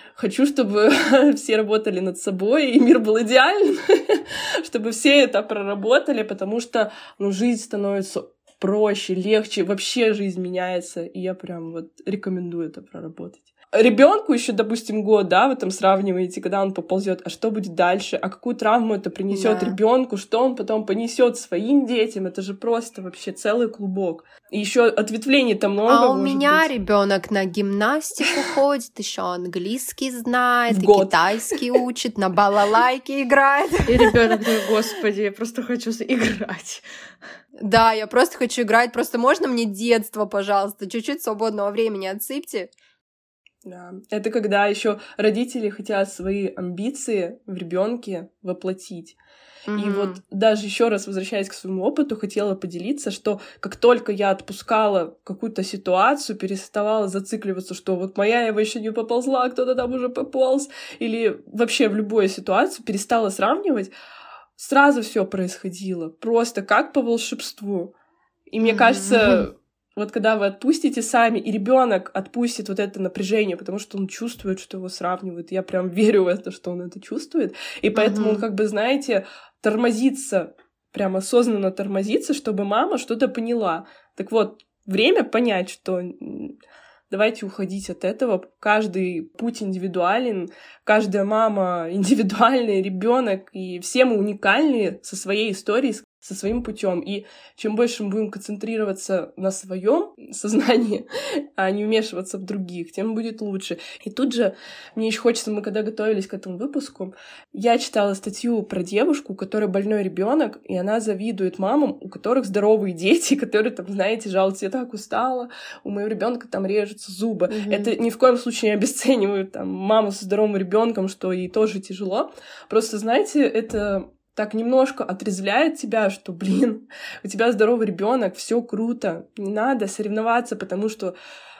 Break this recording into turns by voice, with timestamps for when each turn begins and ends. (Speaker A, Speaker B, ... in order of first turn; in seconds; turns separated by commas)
Speaker A: 0.2-26.7, Speaker B: 19.3-19.8, Speaker B: 25.9-34.3, Speaker A: 30.7-31.6, Speaker C: 33.9-36.8, Speaker B: 37.6-42.7, Speaker A: 43.6-49.2, Speaker B: 49.7-50.2, Speaker A: 49.8-63.9, Speaker A: 64.6-67.9, Speaker A: 68.5-86.6, Speaker B: 68.6-69.4, Speaker B: 78.0-78.5, Speaker A: 87.1-131.2, Speaker B: 117.5-118.0